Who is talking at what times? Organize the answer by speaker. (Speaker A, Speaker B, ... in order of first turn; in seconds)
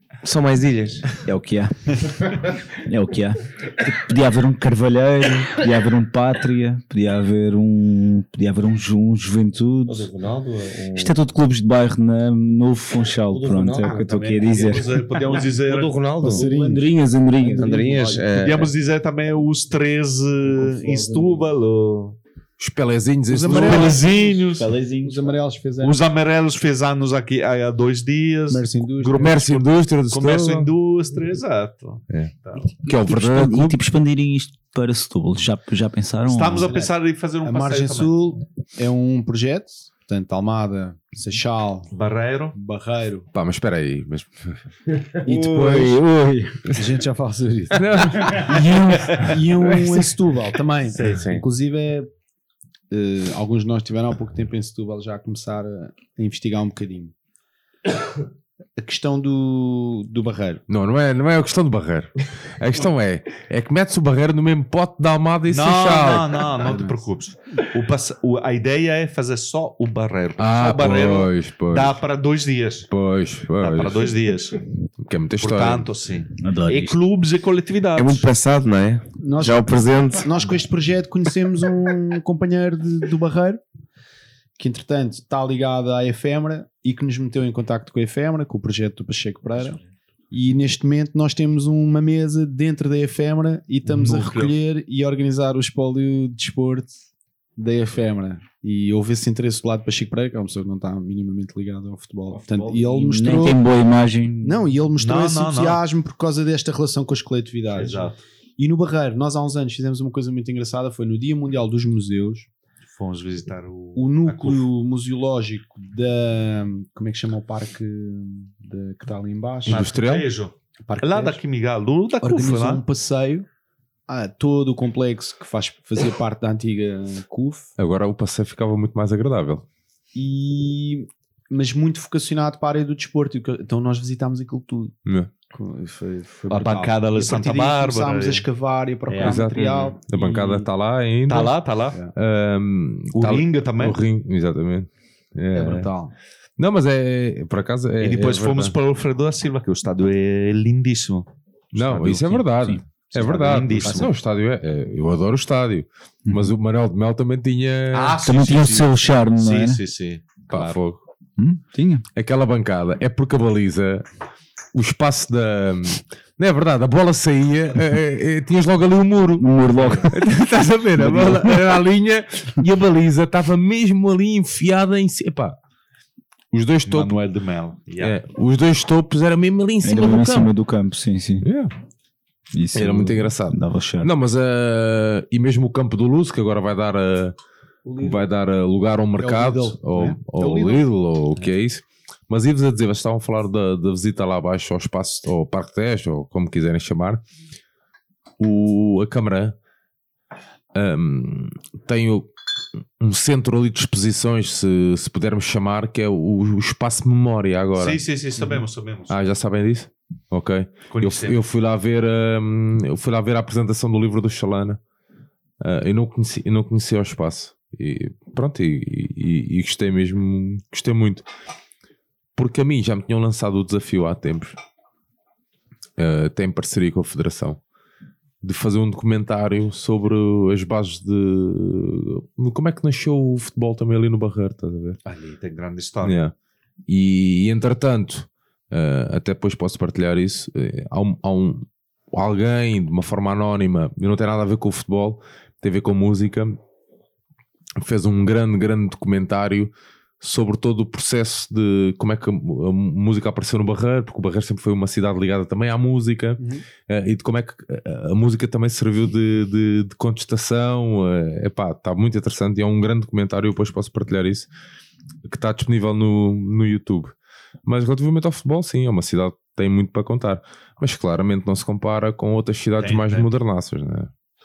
Speaker A: 0.2-1.1, 9.8-11.2, 13.3-14.2, 15.4-16.5, 17.6-18.7, 51.0-51.4, 77.9-80.3
Speaker B: 1.2-10.1, 10.9-15.1, 16.2-18.2, 20.6-21.4, 24.4-25.4, 32.9-36.7, 45.2-46.6, 76.4-77.0, 102.3-104.7, 152.1-152.8, 158.2-159.8, 161.4-162.0, 169.4-170.2, 171.0-171.7, 179.8-181.4, 182.5-184.1
Speaker C: 13.8-16.0, 18.3-22.2, 23.5-24.7, 25.8-28.7, 30.1-32.8, 36.2-38.1, 41.9-42.5, 65.5-72.9, 73.6-74.6, 75.4-78.3, 93.8-94.5, 105.0-105.8, 107.7-108.2, 112.9-114.7, 119.7-122.8, 136.5-138.4, 139.1-140.0, 141.3-142.0, 143.1-144.0, 148.0-152.4, 153.1-154.1, 157.9-160.8, 169.8-170.0, 176.8-178.2, 207.8-209.1, 210.9-211.4, 235.1-236.2, 272.8-273.3
Speaker D: 16.2-18.2, 23.3-24.4, 25.0-26.0, 28.5-29.6, 36.6-36.9, 37.4-41.9, 42.5-43.3, 45.2-45.9, 46.7-52.1, 52.9-57.1, 58.8-60.6, 66.6-67.0, 79.2-83.6, 84.6-89.8, 90.3-96.9, 97.6-103.6, 104.4-112.5, 114.0-119.8, 120.8-121.4, 122.2-123.5, 124.1-127.7, 130.1-134.9, 135.5-140.6, 145.5-146.1, 189.2-190.8, 256.4-256.6
Speaker E: 22.6-24.0, 29.0-30.7, 32.1-33.8, 43.3-44.6, 45.2-45.9, 47.7-48.7, 60.7-66.5, 70.4-72.0, 72.9-74.1, 75.0-75.9, 119.7-120.3, 127.8-129.6, 139.2-141.6, 142.1-145.9, 146.6-148.7, 151.7-158.2, 160.5-161.0, 162.1-164.1, 164.7-169.5, 170.0-175.6, 176.5-177.1, 178.0-180.5, 181.4-181.7, 182.7-187.3, 188.0-197.2, 198.4-199.6, 200.7-202.3, 203.0-208.0, 209.1-214.8, 215.6-221.2, 222.3-224.6, 226.0-227.6, 228.4-235.0, 236.0-236.3, 236.9-246.6, 247.8-264.5, 265.2-267.1, 267.6-274.1